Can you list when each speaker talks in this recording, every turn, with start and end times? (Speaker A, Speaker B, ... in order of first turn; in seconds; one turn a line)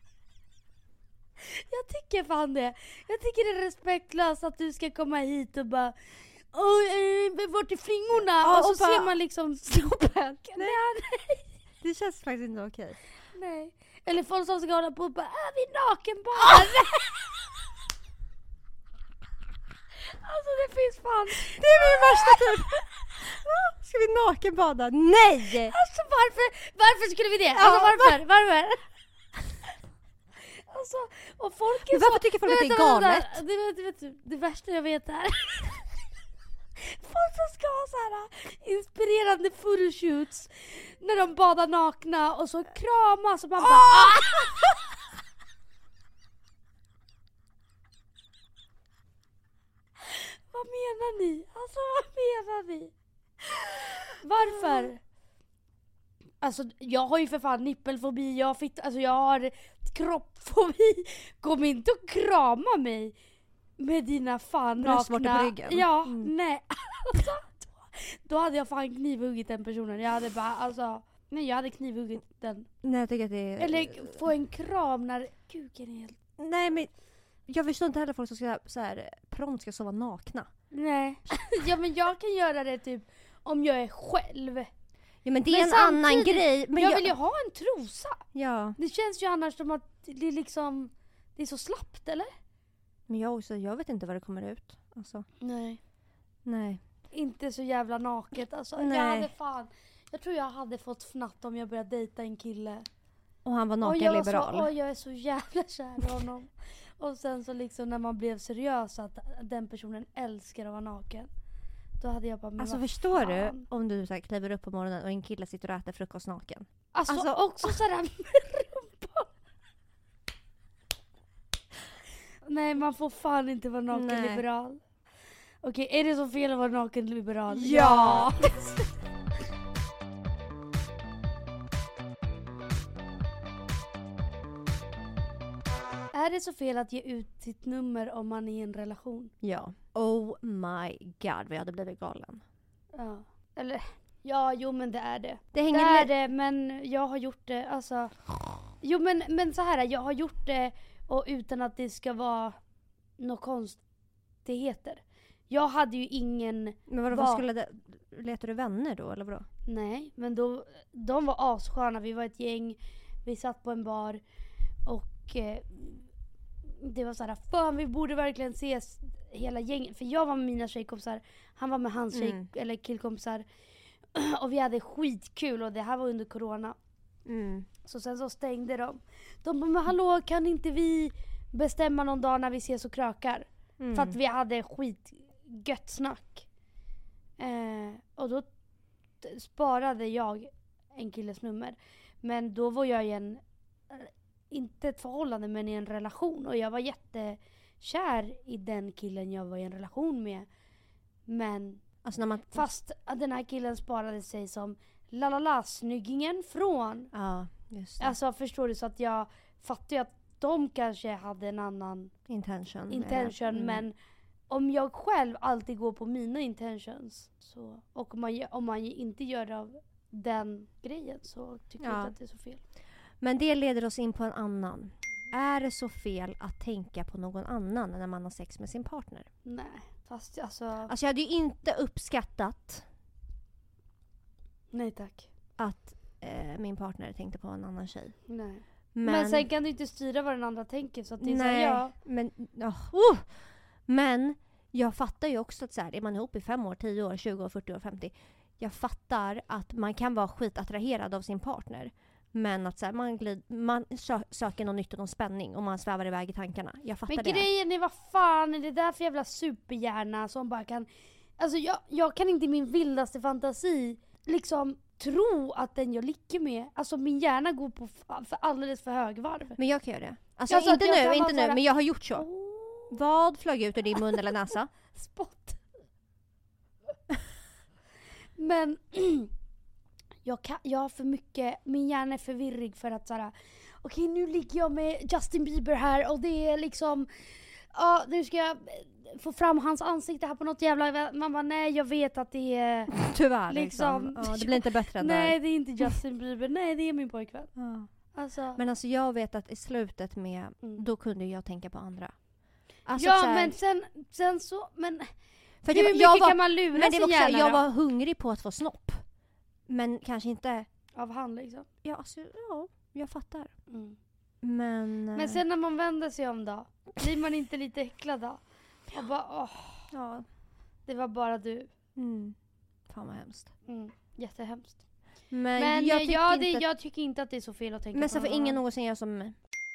Speaker A: 1.4-6.0
Speaker A: 6.5-11.5
Speaker B: 8.4-9.2
Speaker B: 9.7-10.8
Speaker B: 11.8-13.0
Speaker A: 13.3-17.2
Speaker B: 16.4-16.9
Speaker A: 20.0-22.9
Speaker B: 21.5-25.8
Speaker A: 25.6-28.9
Speaker B: 27.6-28.2
Speaker A: 30.4-35.9
Speaker B: 31.9-33.4
Speaker A: 36.8-44.6
Speaker B: 43.8-44.5
Speaker A: 50.0-52.9
Speaker A: 54.1-55.0
Speaker A: 56.4-63.1
Speaker A: 63.8-72.7
Speaker B: 64.8-66.3
Speaker B: 72.8-74.2
Speaker A: 73.6-76.2
Speaker B: 76.4-76.9
Speaker B: 77.5-80.5
Speaker A: 80.7-84.7
Speaker B: 85.2-87.1
Speaker A: 85.5-88.2
Speaker B: 88.3-88.8
Speaker A: 88.8-92.3
Speaker B: 93.1-95.3
Speaker A: 95.4-95.8
Speaker B: 96.5-96.8
Speaker A: 97.1-102.9
Speaker B: 98.8-99.3
Speaker B: 103.5-104.7
Speaker A: 103.8-111.3
Speaker A: 112.0-113.6
Speaker B: 112.6-117.8
Speaker A: 116.9-119.3
Speaker A: 122.5-124.8
Speaker B: 123.9-124.4
Speaker A: 125.6-128.7
Speaker B: 127.5-128.8
Speaker A: 136.1-139.3
Speaker B: 139.4-142.4
Speaker A: 142.9-148.2
Speaker B: 145.5-146.1
Speaker A: 148.8-152.6
Speaker A: 153.2-153.8
Speaker A: 154.4-157.4
Speaker B: 156.9-159.5
Speaker A: 159.7-164.2
Speaker A: 164.8-166.1
Speaker A: 166.7-173.4
Speaker B: 172.1-172.5
Speaker A: 174.1-176.8
Speaker B: 177.3-177.7
Speaker A: 177.8-186.5
Speaker B: 183.8-184.2
Speaker A: 187.4-188.5
Speaker A: 189.2-200.5
Speaker A: 201.3-201.8
Speaker B: 202.0-202.7
Speaker A: 202.5-207.1
Speaker B: 207.1-208.2
Speaker A: 208.0-212.1
Speaker B: 212.3-213.8
Speaker A: 212.9-213.9
Speaker A: 214.5-222.6
Speaker B: 221.8-222.1
Speaker B: 223.2-229.3
Speaker A: 229.4-230.9
Speaker B: 230.9-232.8
Speaker A: 234.7-235.3
Speaker B: 235.6-238.2
Speaker A: 238.3-241.9
Speaker B: 238.9-239.5
Speaker B: 241.2-243.3
Speaker B: 243.9-257.5
Speaker A: 257.1-269.6
Speaker B: 269.6-272.3
Speaker A: 270.5-271.6
Speaker A: 272.1-273.0
Speaker B: 272.9-274.7
Speaker A: 274.9-275.6
Speaker A: 278.4-279.3
Speaker A: 280.2-297.5
Speaker B: 292.9-295.4
Speaker B: 297.6-297.9
Speaker A: 298.1-298.6
Speaker B: 298.6-302.1
Speaker B: 302.9-303.6
Speaker A: 303.0-305.1
Speaker B: 305.6-309.0
Speaker A: 305.7-307.6
Speaker B: 309.7-310.7
Speaker A: 310.9-311.7
Speaker B: 311.8-313.5
Speaker A: 313.7-314.0
Speaker B: 314.4-315.4
Speaker A: 315.1-319.9
Speaker B: 319.9-320.3
Speaker A: 320.9-321.7
Speaker B: 322.0-322.4
Speaker B: 322.9-323.5
Speaker A: 323.7-324.8
Speaker B: 325.3-326.6
Speaker A: 325.6-328.6
Speaker B: 327.9-329.4